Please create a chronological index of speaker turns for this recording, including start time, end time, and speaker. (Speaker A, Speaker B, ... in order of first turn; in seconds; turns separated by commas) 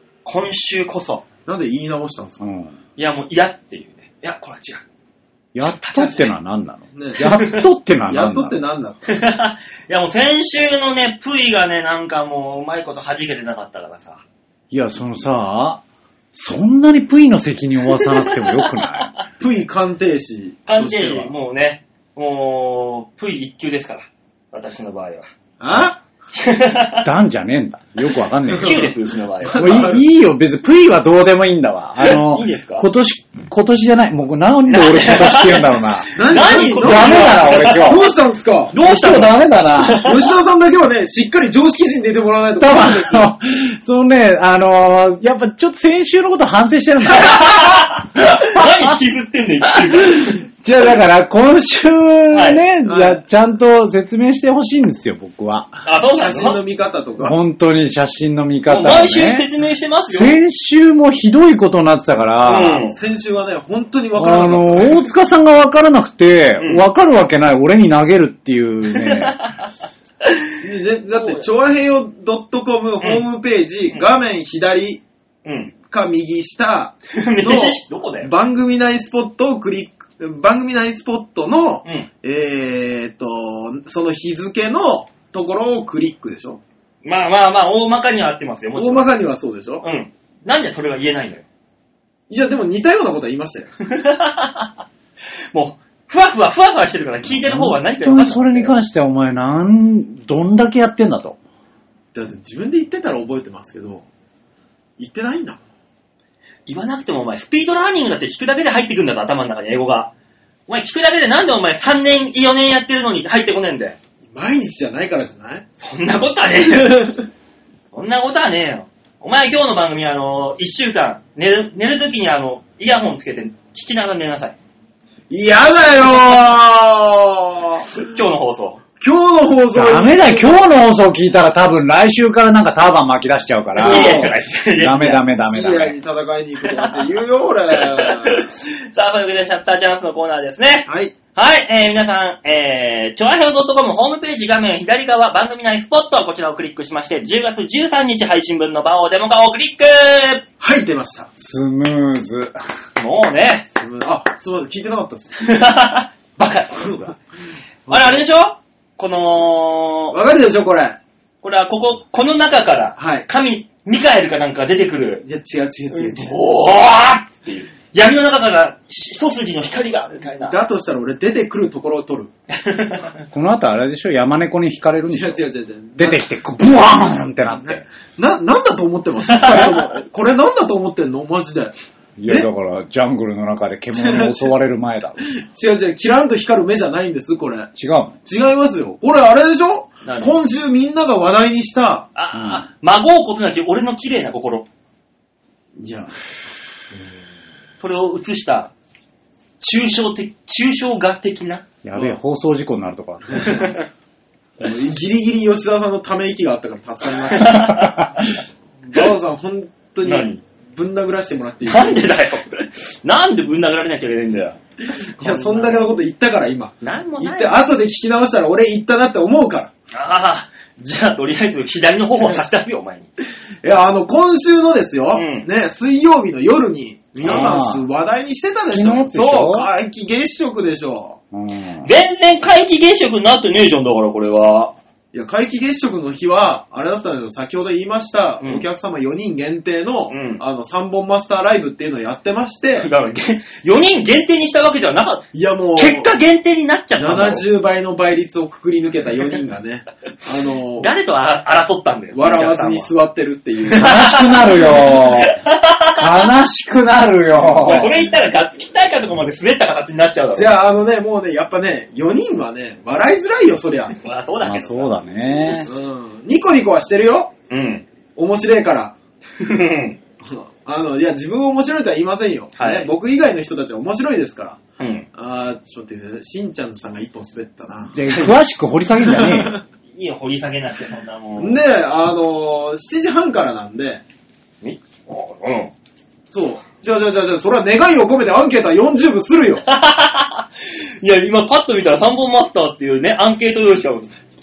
Speaker A: 0.2-1.2, Speaker B: 1.4-2.4, Speaker C: 2.4-2.7, Speaker A: 3.0-4.8, Speaker C: 5.5-8.6, Speaker A: 5.6-6.3, Speaker B: 6.9-7.4, Speaker A: 7.2-7.6, Speaker B: 8.1-9.1, Speaker A: 9.1-14.2, Speaker C: 14.7-19.1, Speaker A: 17.9-19.2, Speaker B: 19.4-21.3, Speaker A: 20.6-25.3, Speaker B: 25.6-26.0, Speaker A: 26.3-27.1, Speaker C: 27.0-28.9, Speaker B: 28.5-28.9, Speaker A: 28.5-29.8, Speaker B: 29.4-30.0, Speaker C: 29.4-38.1, Speaker A: 32.0-32.8, Speaker A: 34.7-38.0, Speaker B: 36.1-38.7, Speaker A: 38.7-40.2, Speaker C: 38.8-40.1, Speaker B: 40.0-43.3, Speaker C: 42.6-48.9, Speaker A: 47.1-50.4, Speaker C: 50.1-55.8, Speaker A: 52.3-52.6, Speaker B: 52.8-53.2, Speaker A: 55.8-56.6, Speaker B: 56.1-57.4, Speaker C: 57.2-59.5, Speaker A: 58.7-60.4, Speaker C: 60.1-62.9, Speaker A: 62.4-63.0, Speaker B: 62.9-65.0, Speaker C: 64.1-69.3, Speaker A: 66.6-66.8, Speaker A: 68.9-69.7, Speaker A: 70.2-70.6, Speaker B: 70.6-75.0, Speaker A: 71.1-71.4, Speaker A: 75.4-75.7, Speaker B: 75.8-86.6, Speaker A: 77.1-78.3, Speaker A: 87.0-89.1, Speaker B: 88.8-89.8, Speaker A: 89.8-91.5, Speaker B: 92.3-93.7, Speaker A: 93.8-94.7, Speaker A: 95.5-98.7, Speaker C: 97.3-101.4, Speaker B: 102.1-104.0, Speaker B: 105.0-105.6, Speaker A: 106.7-110.1, Speaker A: 110.7-114.0, Speaker B: 114.3-115.7, Speaker A: 115.8-117.2, Speaker B: 116.7-117.2, Speaker A: 117.9-124.6, Speaker B: 125.3-128.0, Speaker A: 127.9-128.8, Speaker B: 129.0-130.6, Speaker C: 129.7-135.9, Speaker A: 133.8-135.2, Speaker B: 133.8-134.3, Speaker B: 135.3-138.5, Speaker A: 136.7-137.0, Speaker A: 137.7-150.4, Speaker B: 140.9-141.1, Speaker B: 150.6-151.3, Speaker C: 151.4-152.6, Speaker A: 152.9-153.7, Speaker B: 153.7-155.4, Speaker A: 155.4-157.2, Speaker B: 156.8-157.1, Speaker B: 157.9-158.2, Speaker A: 157.9-160.2, Speaker B: 160.1-161.0, Speaker A: 161.4-165.2, Speaker B: 163.0-163.3, Speaker B: 165.2-166.3, Speaker A: 165.9-170.6, Speaker B: 170.4-172.3, Speaker A: 172.5-173.2, Speaker C: 173.3-175.4, Speaker B: 175.1-176.3, Speaker C: 176.0-177.8, Speaker B: 177.3-181.7, Speaker A: 179.3-179.8, Speaker C: 182.2-185.3, Speaker B: 183.9-184.5, Speaker B: 185.2-187.7, Speaker C: 187.8-188.2, Speaker B: 188.2-192.1, Speaker A: 190.0-190.3, Speaker A: 192.1-194.7, Speaker C: 192.3-192.6, Speaker B: 195.8-196.1, Speaker A: 197.8-198.7, Speaker A: 199.6-201.7, Speaker C: 201.8-203.7, Speaker B: 203.3-203.6, Speaker A: 203.3-203.9, Speaker B: 204.6-207.9, Speaker A: 207.3-208.3, Speaker C: 207.8-208.1, Speaker B: 208.8-212.1, Speaker A: 210.0-210.4, Speaker A: 211.7-214.6, Speaker A: 215.2-215.9, Speaker B: 215.2-219.7, Speaker A: 216.8-217.6, Speaker A: 219.9-223.1, Speaker B: 223.6-231.2, Speaker A: 225.1-225.5, Speaker C: 227.2-227.8, Speaker A: 227.2-227.5, Speaker C: 228.6-229.7, Speaker C: 231.3-231.9, Speaker A: 231.8-234.7, Speaker B: 235.1-242.9, Speaker A: 238.4-238.7, Speaker A: 240.1-240.4, Speaker A: 242.8-247.4, Speaker B: 245.3-246.1, Speaker B: 247.0-250.9, Speaker A: 250.8-252.9, Speaker B: 252.1-254.7, Speaker A: 253.7-256.3, Speaker C: 253.7-255.4, Speaker C: 255.9-258.0, Speaker A: 257.4-260.6, Speaker B: 257.6-257.9, Speaker B: 260.3-264.0, Speaker A: 263.9-265.7, Speaker C: 264.4-265.7, Speaker B: 265.6-267.3, Speaker A: 267.5-267.9, Speaker B: 268.1-268.9, Speaker A: 269.4-270.0, Speaker B: 270.2-274.6, Speaker A: 272.6-272.9, Speaker A: 274.8-275.1, Speaker B: 275.1-278.0, Speaker C: 277.9-279.6, Speaker A: 278.1-278.4, Speaker B: 279.1-279.6, Speaker A: 279.9-281.6, Speaker B: 281.4-284.0, Speaker A: 284.6-285.7, Speaker B: 286.3-289.6, Speaker A: 289.6-294.1